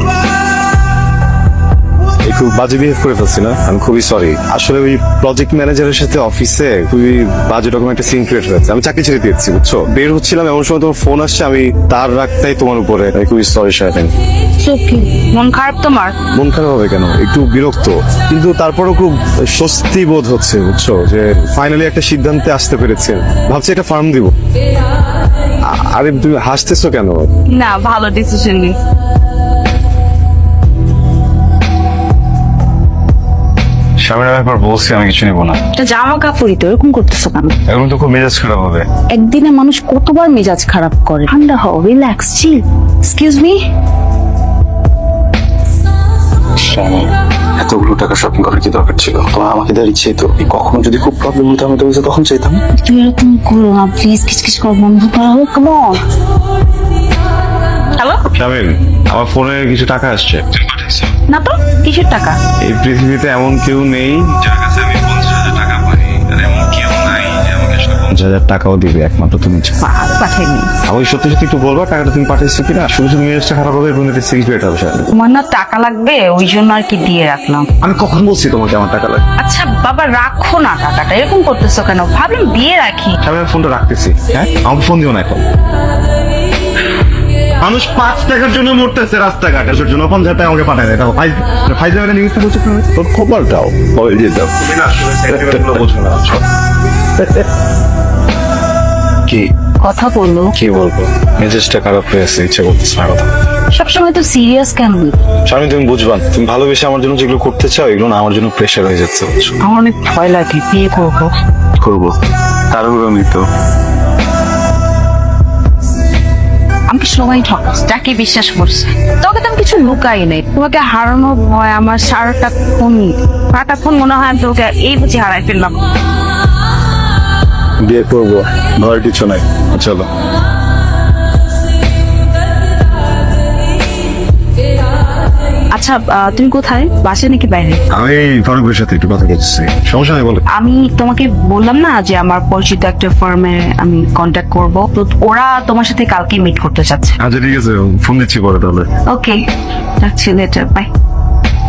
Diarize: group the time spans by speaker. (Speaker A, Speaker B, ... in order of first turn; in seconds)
Speaker A: 2.2-14.1, 16.3-24.3, 25.8-27.2, 34.0-35.6, 37.7-38.9, 46.6-52.6, 58.3-61.1, 62.6-69.8, 70.8-75.1, 77.8-79.2, 83.2-85.4, 87.6-96.4, 97.2-97.5, 100.5-103.3, 105.5-109.6, 111.8-112.1, 112.7-113.4, 127.8-130.1, 137.9-140.4, 147.2-148.9
Speaker B: 14.6-16.1, 27.5-28.8, 35.8-37.5, 39.1-43.6, 52.8-56.0, 58.0-58.3, 61.3-62.4, 69.8-70.7, 75.1-77.7, 79.4-83.2, 99.8-100.5, 103.7-105.2, 109.6-111.3, 116.9-125.8, 135.7-137.8, 140.5-147.2, 149.1-149.4, 150.0-150.9